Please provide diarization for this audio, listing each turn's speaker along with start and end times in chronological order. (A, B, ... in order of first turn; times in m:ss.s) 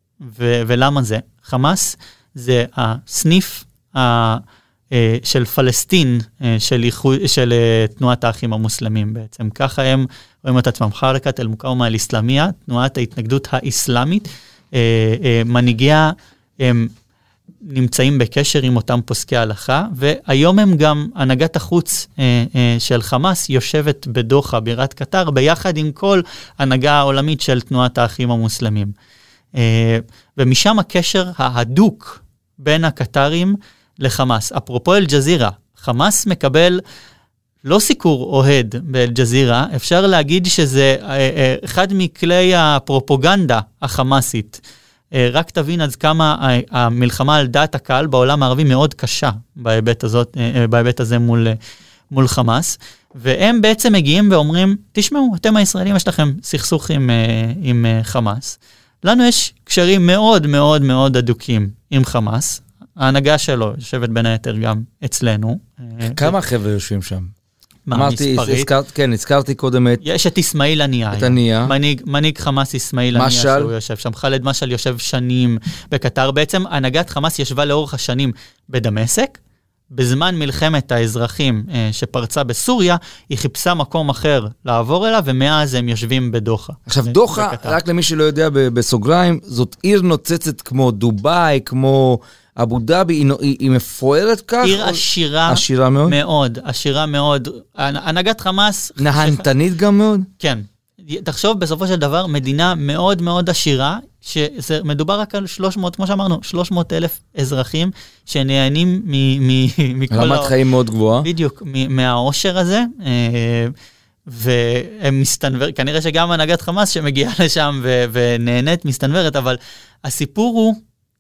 0:00.2-0:16.9 A
0:17.6-0:28.9 A
0:29.6-0:36.8 A
0:37.6-0:44.6 A
0:45.1-0:51.6 A
0:52.1-1:06.4 A
1:06.0-1:07.3 B
1:07.9-1:08.7 A
1:07.9-1:10.0 B
1:10.0-1:19.4 A
1:11.1-1:11.7 B
1:13.2-1:13.7 B
1:19.9-1:27.8 A
1:26.9-1:36.2 B
1:34.6-1:39.5 A
1:39.0-1:40.3 B
1:40.4-1:50.5 A
1:50.1-1:51.3 B
1:51.2-1:53.7 A
1:54.3-2:00.8 A